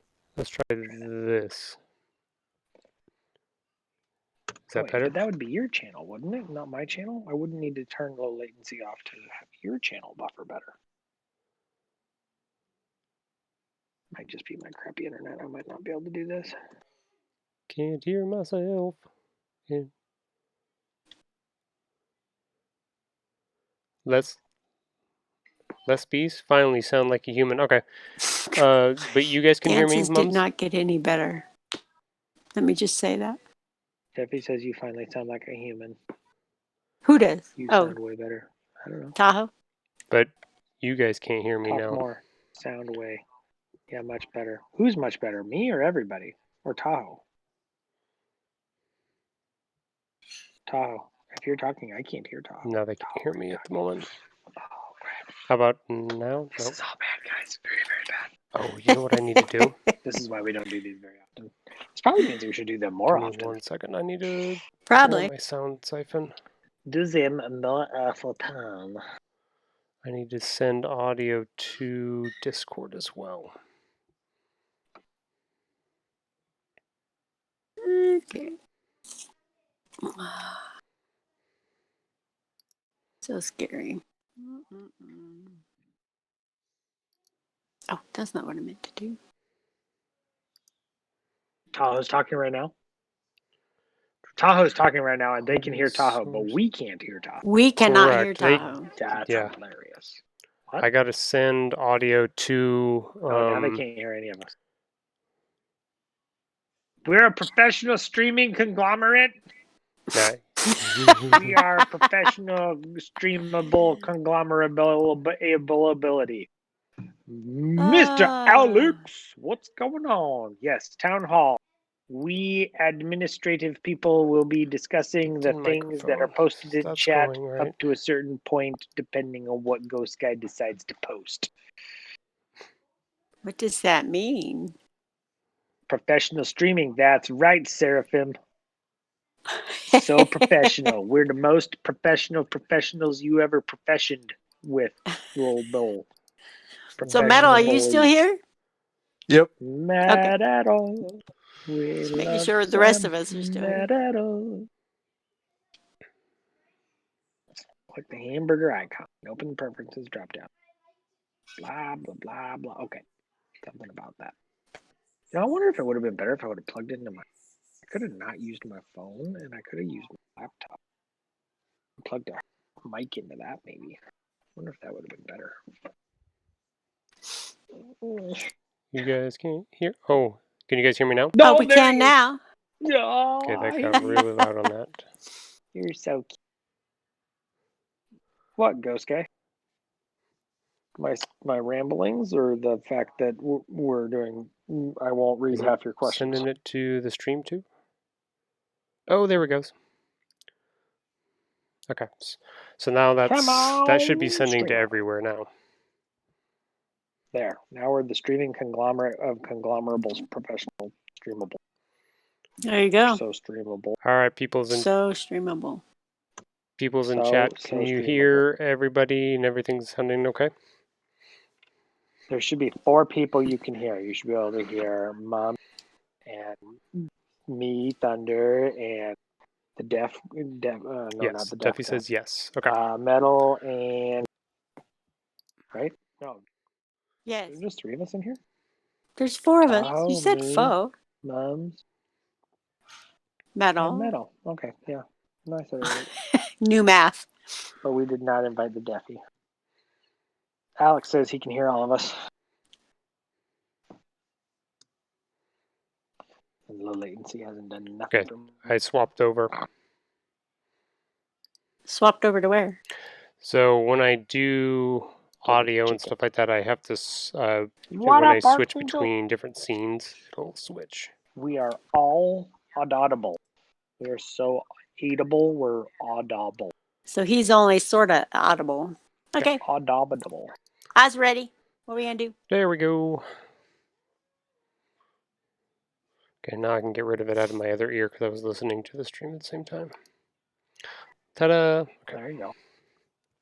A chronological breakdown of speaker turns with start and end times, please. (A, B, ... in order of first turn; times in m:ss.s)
0:00.4-0:01.8 A
0:04.7-0:05.2 A
0:04.7-0:10.8 B
0:14.1-0:16.6 B
0:17.7-0:19.0 A
0:24.0-0:24.4 A
0:25.8-0:27.8 A
0:28.5-0:30.4 A
0:29.6-0:31.4 C
0:32.5-0:33.4 C
0:34.1-0:36.0 B
0:37.0-0:38.0 C
0:37.6-0:39.2 B
0:39.2-0:39.5 C
0:40.1-0:42.0 A
0:41.6-0:43.2 B
0:43.9-0:47.2 B
0:50.7-0:53.8 B
0:52.6-0:54.0 A
0:54.6-0:55.2 B
0:55.5-0:56.8 A
0:56.6-0:58.3 B
0:58.5-0:59.8 A
0:58.9-0:59.7 C
1:00.0-1:03.6 B
1:03.1-1:06.3 A
1:04.9-1:05.3 C
1:06.9-1:09.0 B
1:10.0-1:13.5 A
1:17.8-1:18.5 C
1:20.0-1:20.7 C
1:23.2-1:25.6 C
1:27.9-1:29.2 C
1:31.7-1:32.7 B
1:34.4-1:37.4 B
1:35.4-1:36.6 A
1:37.4-1:38.9 C
1:37.8-1:39.5 A
1:38.9-1:40.9 B
1:40.8-1:43.8 A
1:43.3-1:44.5 B
1:47.0-1:49.3 B
1:50.1-1:51.6 A
1:50.1-1:51.4 C
1:51.3-1:56.5 B
1:57.3-2:11.5 B
1:57.8-1:59.0 C
2:05.2-2:07.8 A
2:13.4-2:14.7 C
2:15.9-2:18.4 B
2:19.5-2:20.9 C
2:19.9-2:26.1 B
2:27.0-2:28.2 B
2:27.1-2:28.4 C
2:29.6-2:34.7 B
2:30.0-2:30.3 C
2:32.1-2:33.8 C
2:37.9-2:40.5 B
2:41.6-2:43.0 B
2:43.6-2:44.3 B
2:45.3-2:47.2 B
2:47.8-2:50.8 B
2:52.0-2:54.0 B
2:54.6-2:55.6 B
2:57.8-2:58.5 B
2:58.9-3:01.4 A
3:01.3-3:02.1 B
3:01.4-3:02.4 C
3:02.8-3:04.2 B
3:03.4-3:05.1 A
3:04.0-3:04.2 C
3:05.7-3:06.3 B
3:08.6-3:09.3 B
3:11.0-3:16.4 B
3:15.5-3:17.6 A
3:19.1-3:19.7 A
3:21.9-3:25.5 A
3:23.2-3:25.0 B
3:27.3-3:31.6 B
3:32.6-3:33.2 C
3:33.0-3:34.0 B
3:34.0-3:34.9 A
3:34.7-3:35.8 C
3:36.8-3:40.5 A
3:37.0-3:38.5 B
3:42.3-3:45.6 B
3:46.2-3:49.2 B
3:49.8-3:52.0 B
3:51.2-3:52.7 A
3:52.7-3:54.3 B
3:55.7-3:56.4 B
3:57.2-3:57.6 C
3:57.5-3:58.4 B
3:59.2-4:00.9 C
3:59.6-4:01.8 B
4:03.5-4:04.1 C
4:03.8-4:06.1 B
4:05.9-4:07.3 C
4:07.8-4:09.2 B
4:10.8-4:12.1 B
4:16.7-4:18.7 B
4:18.1-4:19.5 A
4:21.8-4:22.8 C
4:23.4-4:31.1 A
4:25.4-4:26.2 B
4:27.9-4:29.1 B
4:31.4-4:33.4 B
4:34.0-4:36.7 B
4:37.1-4:39.6 C
4:39.6-4:40.5 B
4:41.0-4:42.3 C
4:42.5-4:43.2 A
4:46.4-4:49.9 A
4:51.3-4:52.2 A
4:52.1-4:52.5 B